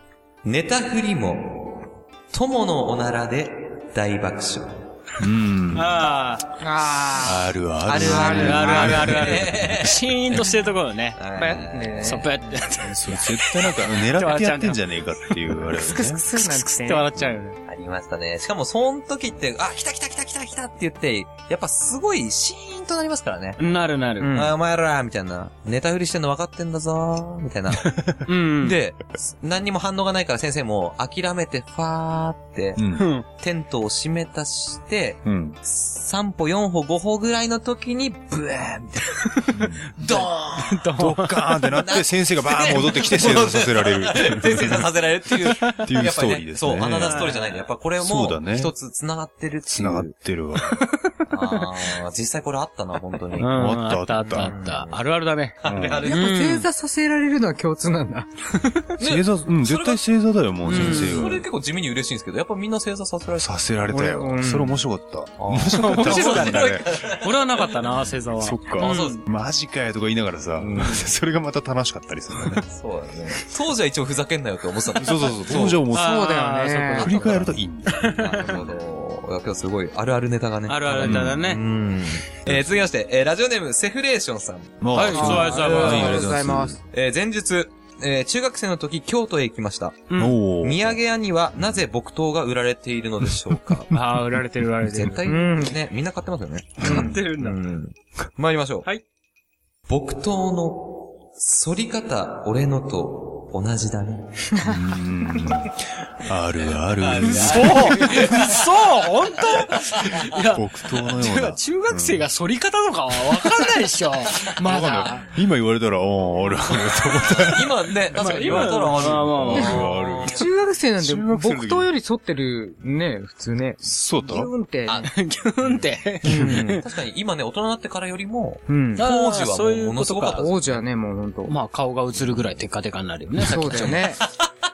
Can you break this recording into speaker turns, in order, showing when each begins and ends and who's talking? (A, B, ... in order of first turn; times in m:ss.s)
0:00.4-0:04.8 A
0:05.2-0:06.0 B
0:05.7-0:06.4 C
0:06.6-0:08.9 D
0:07.2-0:09.9 B
0:07.8-0:10.4 A
0:08.4-0:11.2 C
0:11.2-0:12.3 A
0:11.4-0:12.4 D
0:12.0-0:15.6 C
0:12.9-0:16.2 B
0:15.8-0:17.1 D
0:16.3-0:17.6 C
0:17.6-0:23.6 A
0:23.6-0:24.3 C
0:24.2-0:24.5 D
0:24.3-0:28.0 A
0:28.2-0:28.8 C
0:28.6-0:39.3 A
0:32.8-0:33.0 B
0:33.0-0:33.2 C
0:35.2-0:35.6 B
0:39.5-0:39.8 B
0:40.0-0:40.8 A
0:40.6-0:41.6 C
0:41.0-0:44.9 B
0:41.8-0:50.1 A
0:45.4-0:47.3 B
0:47.0-0:47.5 C
0:48.0-0:48.7 B
0:49.7-0:50.8 B
0:50.7-0:51.6 C
0:51.3-0:53.5 A
0:53.4-0:55.6 C
0:53.4-0:54.5 B
0:54.3-0:55.0 A
0:55.6-0:56.3 A
0:55.6-0:56.1 B
0:56.1-0:58.3 D
0:56.1-0:56.7 C
0:59.0-1:00.0 A
0:59.0-1:01.4 B
1:00.6-1:03.6 A
1:00.6-1:01.3 C
1:03.4-1:06.9 B
1:03.9-1:04.8 D
1:05.4-1:07.6 A
1:05.8-1:09.2 C
1:08.4-1:12.6 B
1:08.8-1:09.2 A
1:10.6-1:11.0 A
1:12.6-1:15.8 A
1:14.9-1:16.3 B
1:15.9-1:17.3 D
1:15.9-1:18.4 C
1:16.9-1:18.6 B
1:18.1-1:33.9 A
1:20.7-1:21.6 C
1:21.0-1:21.4 B
1:22.4-1:22.8 B
1:24.8-1:26.8 B
1:24.9-1:26.2 C
1:25.1-1:26.8 D
1:30.1-1:30.4 C
1:30.2-1:31.0 B
1:33.9-1:35.2 C
1:34.8-1:38.9 A
1:35.2-1:35.8 D
1:36.8-1:37.2 B
1:36.8-1:37.6 C
1:39.9-1:44.5 A
1:44.6-1:48.3 B
1:47.0-1:48.6 A
1:47.2-1:55.3 C
1:50.3-1:52.3 B
1:54.6-2:00.5 B
1:57.2-2:00.5 A
1:58.1-1:59.8 C
1:59.5-2:05.1 D
2:01.0-2:01.9 B
2:03.8-2:04.5 B
2:05.0-2:06.8 C
2:06.2-2:10.8 A
2:06.3-2:06.6 D
2:08.7-2:09.0 D
2:09.0-2:10.4 C
2:10.3-2:11.5 D
2:11.5-2:14.0 C
2:13.4-2:14.2 D
2:13.7-2:14.0 A